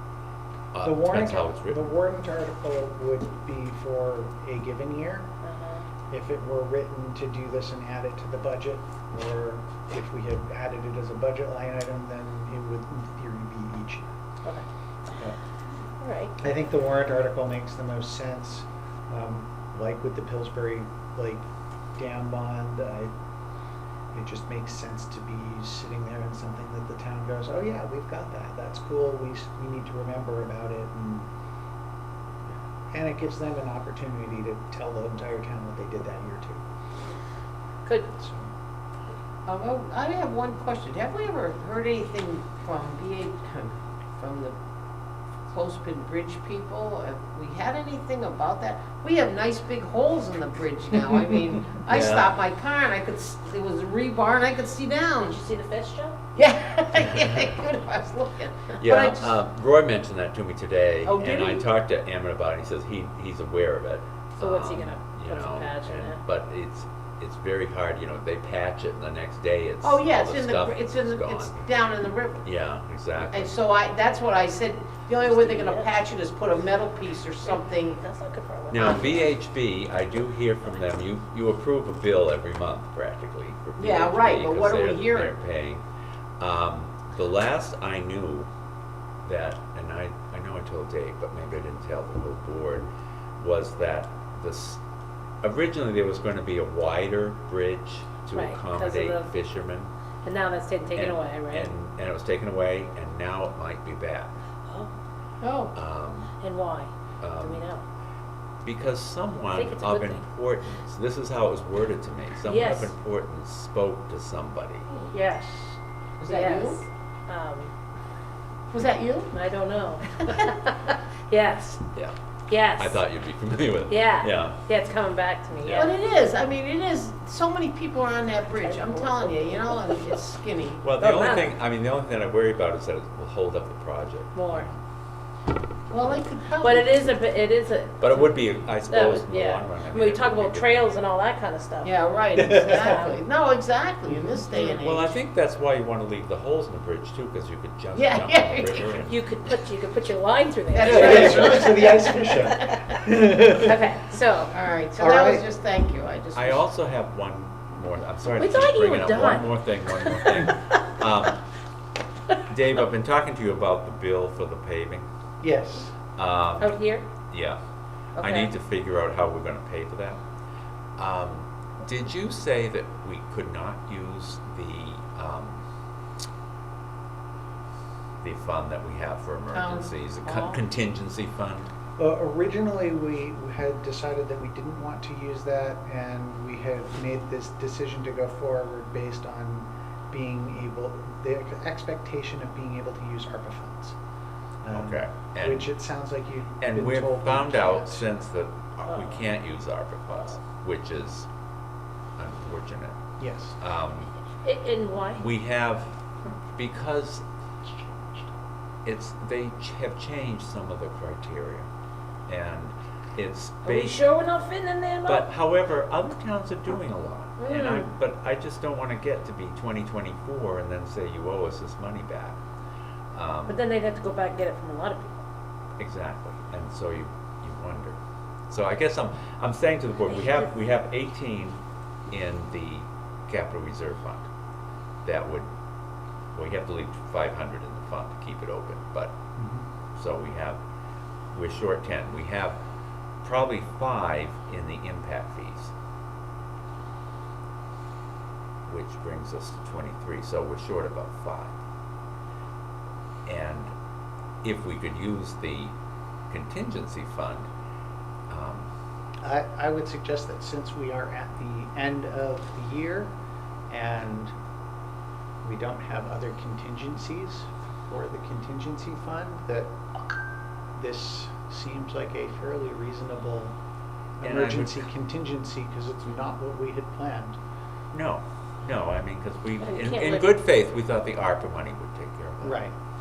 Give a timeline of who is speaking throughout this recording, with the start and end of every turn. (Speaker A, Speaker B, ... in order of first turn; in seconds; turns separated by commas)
Speaker A: 0.7-1.9, Speaker B: 0.8-5.3, Speaker C: 5.4-5.8, Speaker B: 6.1-14.1, Speaker C: 16.0-16.3, Speaker B: 16.4-21.4, Speaker B: 22.0-23.1, Speaker B: 24.1-31.3, Speaker B: 32.9-36.6, Speaker B: 38.2-38.5, Speaker D: 39.5-44.6, Speaker D: 45.5-55.4, Speaker A: 51.7-52.3, Speaker C: 55.3-56.2, Speaker D: 56.4-59.4, Speaker A: 58.8-71.6, Speaker D: 61.0-61.6, Speaker C: 64.4-66.2, Speaker D: 69.8-72.5, Speaker A: 72.4-73.5, Speaker D: 73.3-78.0, Speaker C: 75.2-76.0, Speaker C: 77.4-79.3, Speaker A: 78.7-85.8, Speaker D: 83.8-85.3, Speaker A: 86.4-88.5, Speaker A: 89.2-92.9, Speaker A: 93.4-94.8, Speaker A: 95.4-99.9, Speaker C: 98.3-99.3, Speaker C: 100.2-101.7, Speaker A: 101.0-104.3, Speaker C: 104.7-104.9, Speaker D: 105.4-105.7, Speaker A: 105.7-106.3, Speaker C: 106.4-107.8, Speaker A: 107.2-107.7, Speaker A: 108.6-114.9, Speaker C: 109.5-110.2, Speaker C: 112.4-112.9, Speaker C: 115.1-115.8, Speaker D: 116.2-116.8, Speaker C: 116.3-117.7, Speaker D: 118.7-119.3, Speaker C: 119.3-121.9, Speaker C: 122.5-123.0, Speaker A: 122.8-124.6, Speaker C: 123.9-125.9, Speaker A: 125.6-125.9, Speaker D: 125.8-130.8, Speaker C: 128.5-130.0, Speaker A: 130.8-134.8, Speaker C: 131.0-131.5, Speaker C: 134.3-134.7, Speaker D: 135.9-137.1, Speaker C: 136.6-138.3, Speaker A: 138.0-140.9, Speaker C: 138.9-143.2, Speaker D: 141.8-145.2, Speaker A: 142.4-143.0, Speaker A: 144.6-149.2, Speaker D: 147.9-149.0, Speaker C: 149.1-152.0, Speaker D: 150.7-152.8, Speaker B: 150.8-153.9, Speaker C: 153.4-154.6, Speaker D: 154.5-156.6, Speaker B: 155.0-155.4, Speaker A: 156.3-161.5, Speaker C: 158.4-160.5, Speaker A: 162.5-165.1, Speaker B: 165.4-166.0, Speaker A: 166.2-166.8, Speaker C: 166.6-167.1, Speaker A: 167.3-167.6, Speaker D: 168.2-168.5, Speaker A: 168.2-170.2, Speaker A: 171.0-175.6, Speaker A: 178.2-181.7, Speaker D: 179.5-180.6, Speaker B: 182.0-194.0, Speaker B: 194.6-198.0, Speaker A: 194.7-195.7, Speaker A: 196.6-201.3, Speaker A: 202.2-203.0, Speaker B: 203.2-203.6, Speaker A: 203.6-204.1, Speaker C: 204.4-205.2, Speaker A: 205.2-205.9, Speaker A: 206.6-207.2, Speaker A: 208.8-211.7, Speaker A: 212.3-214.1, Speaker C: 213.7-215.3, Speaker A: 215.1-222.4, Speaker C: 217.4-217.9, Speaker A: 223.1-223.6, Speaker C: 223.5-225.2, Speaker A: 225.8-228.0, Speaker A: 228.5-234.3, Speaker A: 235.1-235.5, Speaker A: 236.3-239.2, Speaker B: 239.4-239.7, Speaker A: 239.9-240.6, Speaker A: 241.3-242.6, Speaker A: 243.2-245.7, Speaker A: 248.7-251.6, Speaker A: 253.3-253.7, Speaker A: 254.4-255.7, Speaker A: 256.3-257.5, Speaker A: 258.3-258.7, Speaker B: 259.2-263.1, Speaker B: 263.7-264.3, Speaker B: 265.4-269.8, Speaker B: 270.7-273.6, Speaker B: 274.2-277.4, Speaker A: 274.2-274.9, Speaker A: 277.9-282.6, Speaker C: 279.6-280.3, Speaker B: 282.4-282.7